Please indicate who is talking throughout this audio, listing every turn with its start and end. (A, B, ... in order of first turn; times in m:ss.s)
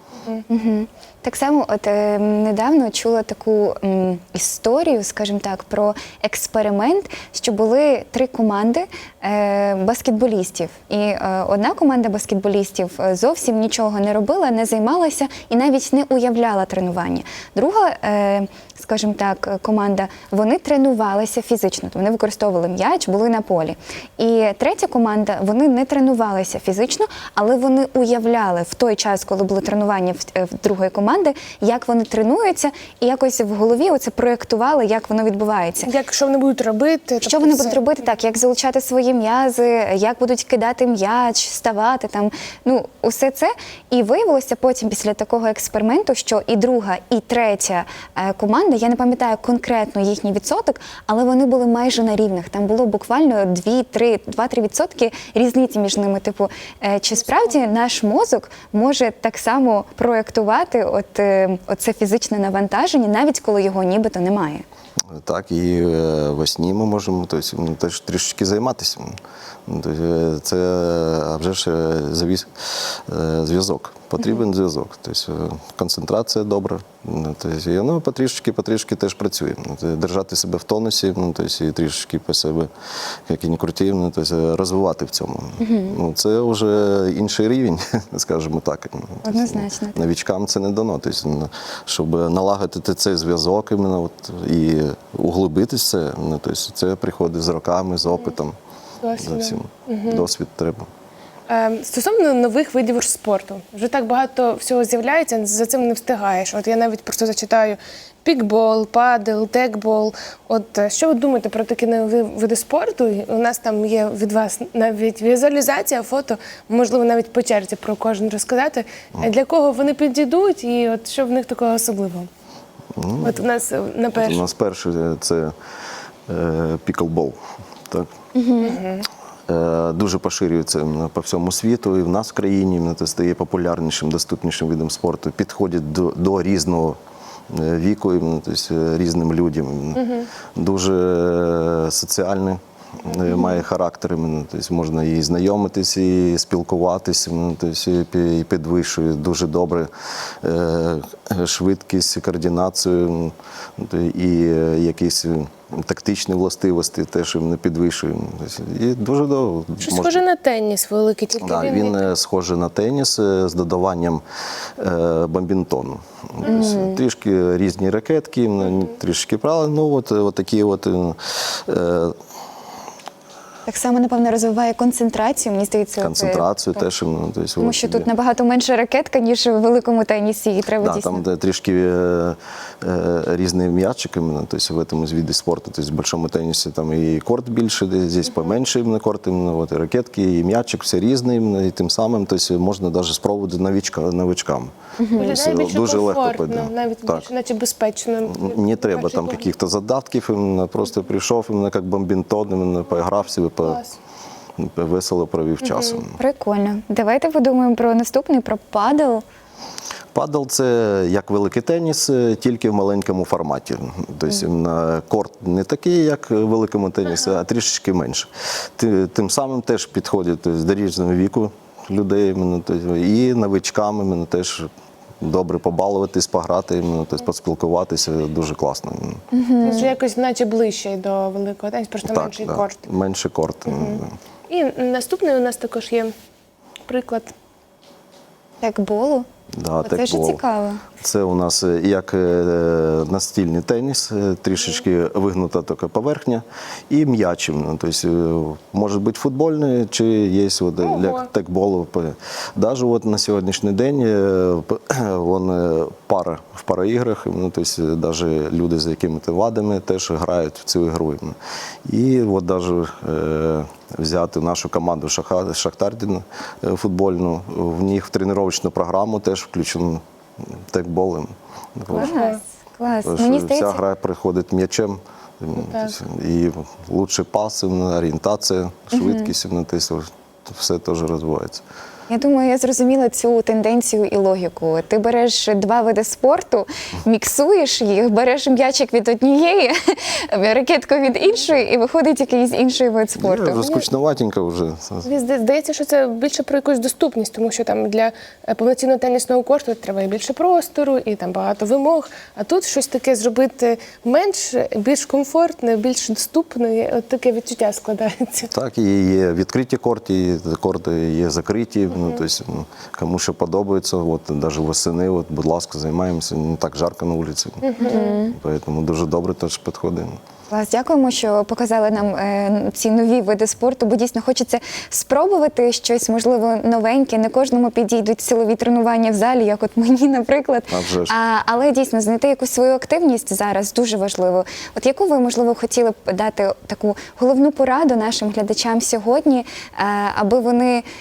0:00.5-0:35.9 A
0:35.8-0:37.8 B
0:37.2-1:04.6 A
1:05.2-1:09.1 C
1:09.7-1:22.7 C
1:23.3-1:38.6 C
1:25.6-1:26.0 A
1:29.2-1:30.0 A
1:39.0-1:40.2 B
1:39.2-1:40.9 C
1:41.5-2:02.3 B
2:02.9-2:03.4 C
2:03.2-2:04.5 B
2:04.2-2:05.5 C
2:06.3-2:07.4 C
2:08.3-2:08.8 A
2:08.6-2:09.1 B
2:09.5-2:17.0 C
2:17.5-2:29.9 C
2:20.0-2:20.3 B
2:30.4-2:40.2 C
2:39.8-2:42.0 B
2:41.4-2:44.2 C
2:44.8-2:52.2 C
2:46.4-2:47.0 A
2:53.6-2:56.6 A
2:56.0-2:58.1 C
2:57.6-3:01.2 A
3:00.8-3:17.3 C
3:15.0-3:15.4 A
3:15.1-3:19.5 B
3:18.2-3:23.8 C
3:23.6-3:24.0 B
3:24.6-3:26.2 C
3:26.2-3:29.2 A
3:30.1-3:44.7 C
3:45.2-3:49.2 C
3:49.3-3:49.9 A
3:49.6-3:52.8 B
3:52.0-3:54.2 C
3:53.7-3:56.1 B
3:56.9-3:57.3 B
3:58.6-3:59.2 A
3:59.6-4:00.4 C
3:59.8-4:00.8 A
4:01.0-4:32.1 C
4:10.8-4:11.3 B
4:31.9-4:33.8 A
4:31.9-4:32.4 B
4:33.0-4:41.6 C
4:35.6-4:35.9 B
4:38.9-4:39.3 A
4:42.1-4:53.7 A
4:53.2-4:55.1 C
4:55.0-5:08.5 B
5:08.5-5:17.7 C
5:17.6-5:18.2 B
5:17.8-5:18.4 A
5:18.3-5:20.2 C
5:20.5-5:40.8 A
5:30.7-5:31.1 C